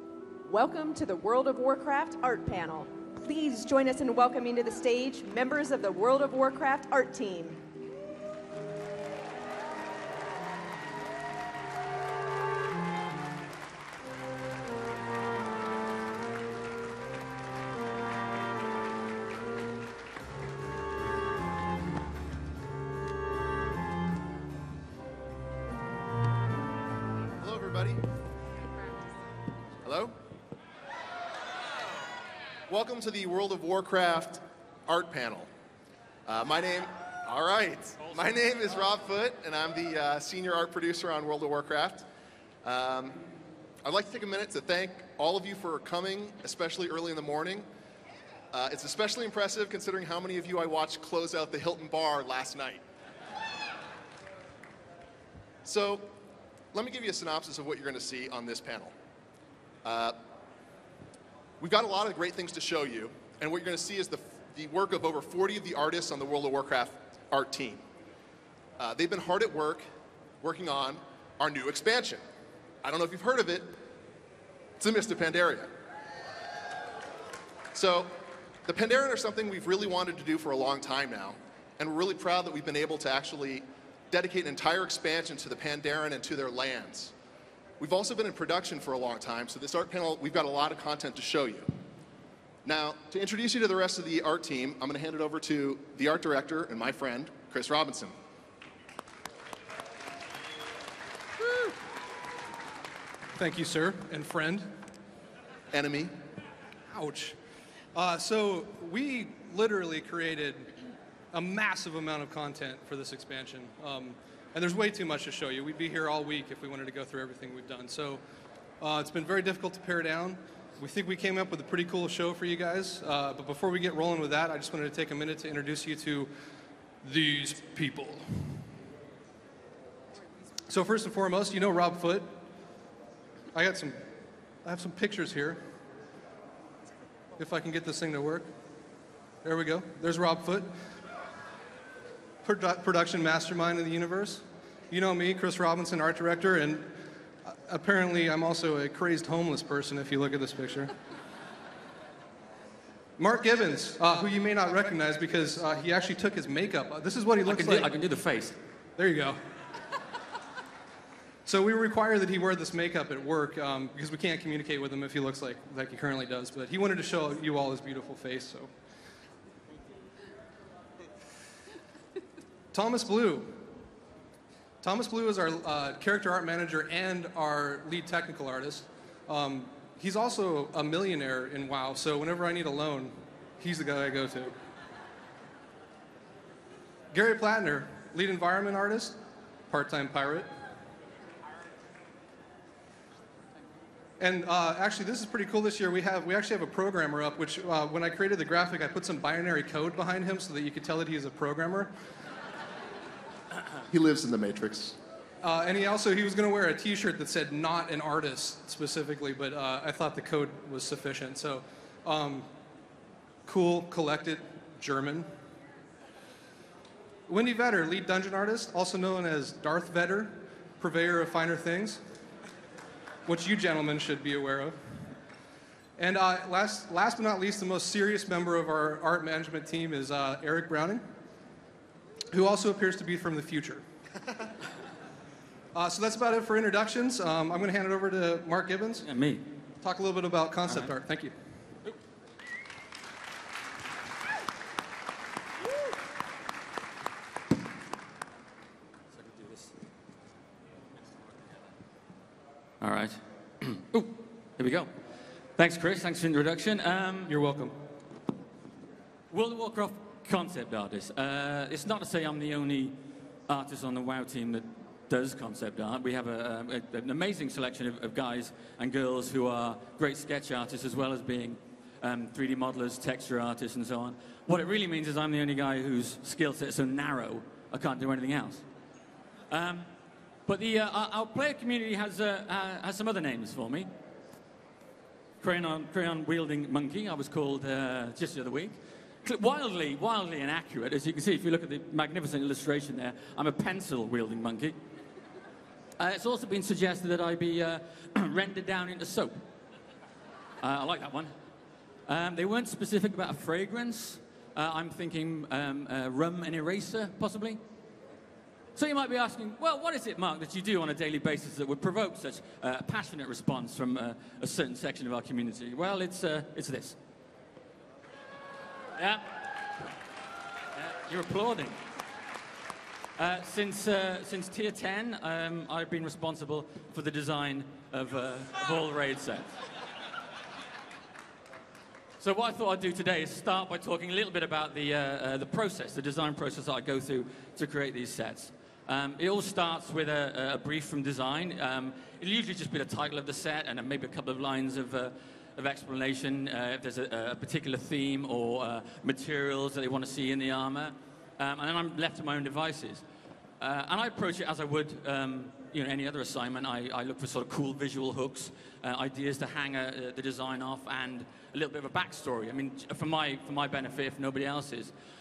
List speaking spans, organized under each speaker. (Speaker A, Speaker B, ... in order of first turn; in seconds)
Speaker A: 0.4-7.6
Speaker B: 27.4-28.0, 29.8-30.1, 32.7-35.5, 36.3-42.0, 42.6-43.2, 43.8-47.7, 48.5-52.8, 55.6-56.1, 56.7-58.9, 59.8-60.1, 61.6-67.8, 68.8-69.8, 70.4-72.2, 72.8-73.7, 74.8-75.7, 77.7-78.1, 78.7-87.1, 87.8-91.7, 92.6-98.1, 105.7-106.1, 203.9-205.0
Speaker C: 103.3-104.7, 106.9-107.3, 107.9-110.7, 111.3-118.2, 118.8-126.3, 127.0-128.7, 130.7-132.2, 133.5-134.0, 134.6-135.6, 137.4-138.5, 139.4-140.7, 142.4-146.9, 147.4-150.9, 153.2-157.9, 159.0-159.4, 161.4-168.7, 172.7-173.5, 174.8-184.5, 187.1-189.2, 189.7-190.5, 194.2-201.9, 205.4-212.5, 213.4-215.3, 217.3-222.0, 223.2-224.8, 226.0-231.0, 232.3-233.8, 235.7-239.1, 239.8-241.3, 257.3-257.8
Speaker D: 157.4-158.6, 239.0-239.5, 249.1-249.7, 252.8-254.9, 255.6-257.4, 259.3-278.6, 279.5-279.9, 280.4-283.9, 285.4-294.8, 296.0-299.4, 300.6-301.3, 302.1-307.6, 308.7-317.0, 318.9-319.5, 320.7-321.8, 323.1-329.5, 332.2-353.0, 353.6-364.9